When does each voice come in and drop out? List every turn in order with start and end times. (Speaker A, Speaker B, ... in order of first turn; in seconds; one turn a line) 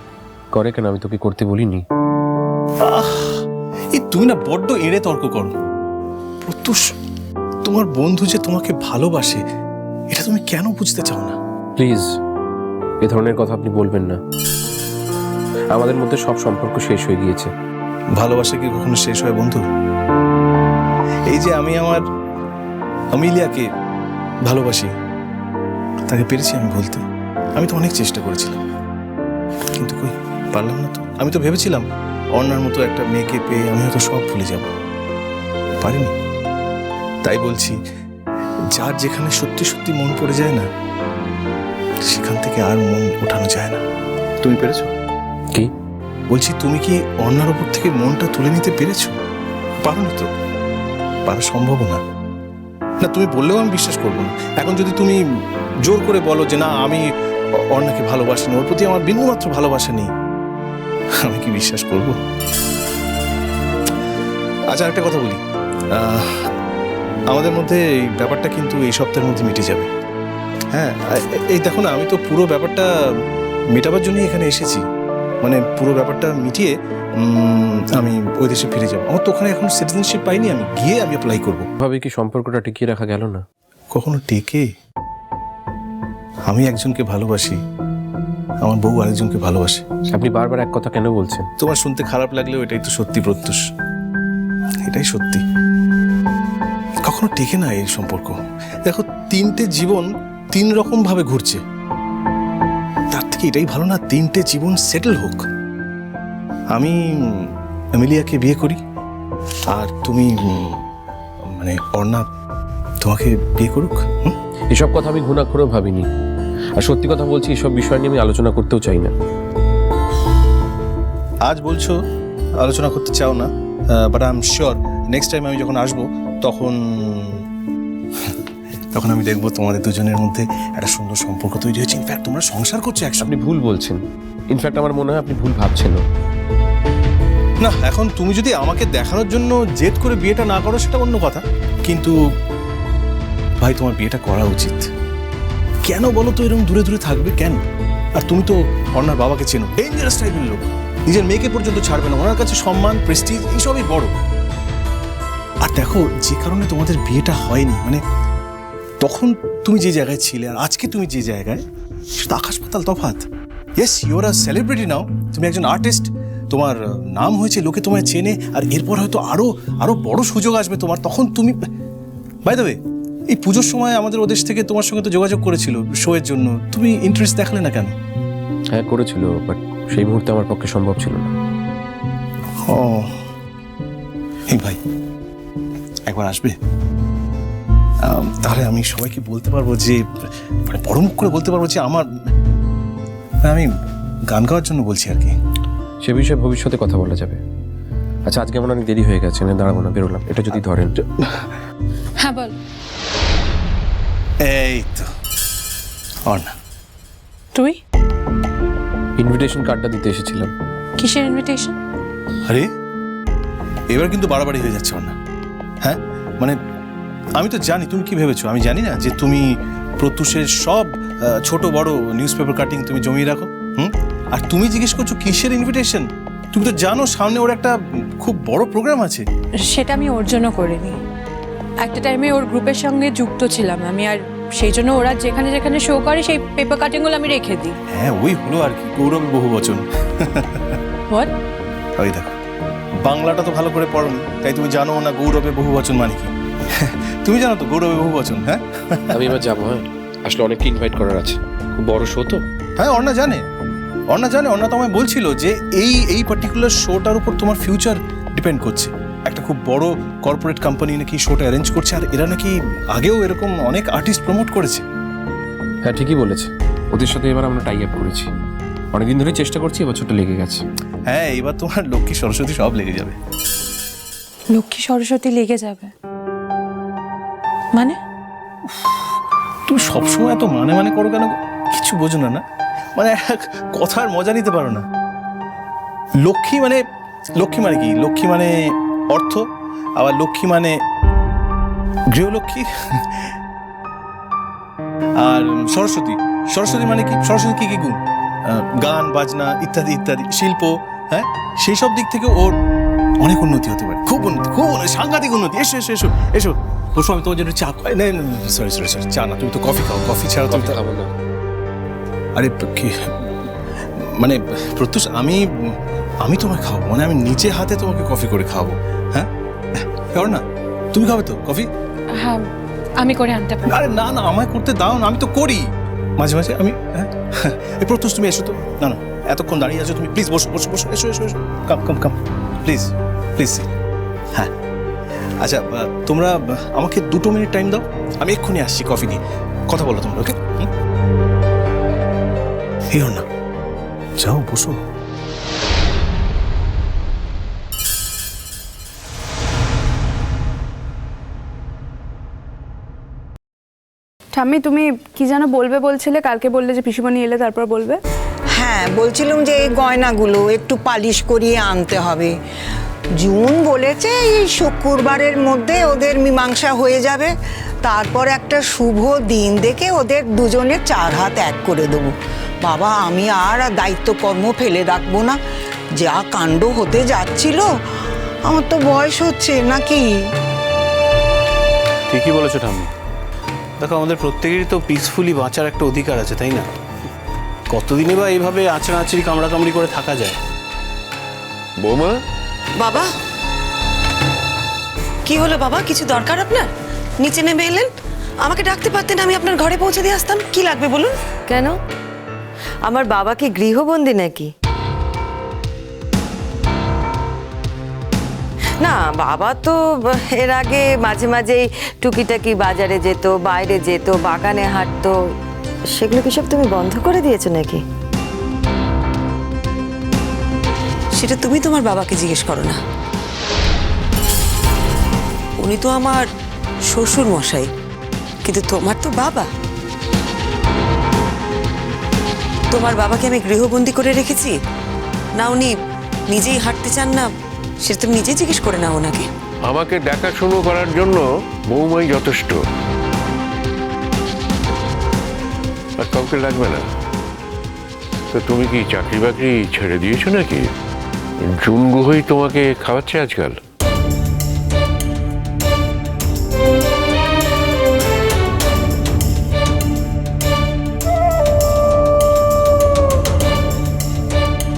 Speaker A: 0.6-1.9
Speaker B: 2.9-5.5
Speaker B: 6.5-6.8
Speaker B: 7.7-9.4
Speaker B: 10.1-11.4
Speaker A: 11.8-12.1
Speaker A: 13.0-14.2
Speaker A: 15.7-17.5
Speaker B: 18.2-19.6
Speaker B: 21.3-22.0
Speaker B: 23.1-23.7
Speaker B: 24.5-24.9
Speaker B: 26.1-27.0
Speaker B: 27.6-28.6
Speaker B: 29.8-34.7
Speaker B: 35.8-36.1
Speaker B: 37.2-37.8
Speaker B: 38.7-40.7
Speaker B: 42.1-43.8
Speaker B: 44.4-44.9
Speaker B: 46.3-49.1
Speaker B: 49.8-50.3
Speaker B: 51.3-52.0
Speaker B: 53.0-55.2
Speaker B: 55.9-57.0
Speaker B: 57.7-60.1
Speaker B: 61.2-62.2
Speaker B: 64.7-65.4
Speaker B: 66.0-66.4
Speaker B: 67.3-69.9
Speaker B: 70.7-72.9
Speaker B: 73.7-74.8
Speaker B: 75.4-81.7
Speaker A: 81.8-83.4
Speaker B: 83.9-84.7
Speaker B: 86.5-87.6
Speaker B: 88.6-89.8
Speaker A: 90.1-91.5
Speaker B: 91.6-93.6
Speaker B: 94.8-95.4
Speaker B: 97.1-101.6
Speaker B: 103.1-105.4
Speaker B: 106.8-108.8
Speaker B: 109.7-110.8
Speaker B: 111.6-112.3
Speaker B: 113.0-114.3
Speaker A: 114.7-116.1
Speaker A: 116.8-119.1
Speaker B: 121.5-122.0
Speaker B: 122.6-127.4
Speaker B: 128.9-133.3
Speaker A: 133.2-136.0
Speaker B: 137.6-142.2
Speaker B: 143.6-144.9
Speaker B: 145.9-147.6
Speaker B: 148.2-154.1
Speaker B: 155.6-158.0
Speaker B: 159.0-161.6
Speaker B: 162.2-163.2
Speaker B: 163.8-171.6
Speaker B: 172.4-172.8
Speaker B: 173.3-177.9
Speaker A: 178.7-181.3
Speaker B: 182.7-183.1
Speaker B: 184.5-184.8
Speaker B: 186.1-186.6
Speaker B: 188.1-190.0
Speaker B: 190.7-192.1
Speaker B: 194.3-195.3
Speaker A: 196.1-197.4
Speaker A: 198.3-200.9
Speaker B: 200.5-201.5
Speaker C: 202.2-202.5
Speaker B: 204.4-205.1
Speaker B: 206.3-206.5
Speaker A: 209.2-210.5
Speaker C: 211.0-211.8
Speaker B: 213.9-215.2
Speaker B: 215.8-216.6
Speaker B: 217.4-219.4
Speaker B: 220.0-229.2
Speaker C: 229.7-231.0
Speaker C: 231.8-237.7
Speaker B: 237.9-240.8
Speaker B: 242.0-242.4
Speaker B: 243.0-249.2
Speaker A: 249.1-252.4
Speaker B: 252.8-253.4
Speaker B: 254.1-264.9
Speaker A: 265.9-268.3
Speaker A: 268.9-270.6
Speaker B: 271.1-273.2
Speaker C: 274.5-275.9
Speaker B: 279.7-282.4
Speaker B: 283.0-284.9
Speaker B: 286.2-286.8
Speaker B: 287.4-289.4
Speaker B: 290.0-290.8
Speaker B: 292.1-293.2
Speaker B: 295.2-302.5
Speaker B: 303.2-310.8
Speaker A: 310.5-311.1
Speaker B: 312.4-313.3
Speaker B: 314.0-321.7
Speaker C: 322.2-322.4
Speaker C: 323.0-323.8
Speaker B: 323.6-333.7
Speaker B: 335.4-340.7
Speaker B: 342.9-343.2
Speaker B: 344.2-344.8
Speaker D: 354.4-358.0
Speaker E: 358.6-362.3
Speaker E: 363.2-367.3
Speaker E: 367.8-372.1
Speaker E: 372.6-375.4
Speaker E: 376.0-377.7
Speaker E: 378.5-380.1
Speaker F: 382.1-382.9
Speaker F: 383.8-386.7
Speaker F: 387.7-390.4
Speaker G: 391.8-392.2
Speaker H: 392.8-393.1
Speaker H: 395.3-396.7
Speaker H: 397.2-397.9
Speaker H: 398.4-401.1
Speaker I: 401.5-401.8
Speaker I: 402.9-404.5
Speaker I: 408.8-415.2
Speaker I: 415.9-417.8
Speaker H: 421.1-422.8
Speaker H: 425.6-426.2
Speaker H: 426.9-427.7
Speaker H: 428.4-429.5
Speaker H: 432.7-434.6
Speaker H: 435.4-435.7
Speaker H: 436.3-437.3
Speaker H: 437.8-439.3
Speaker G: 439.6-442.6
Speaker G: 446.0-446.8
Speaker G: 448.3-450.7
Speaker G: 451.4-453.6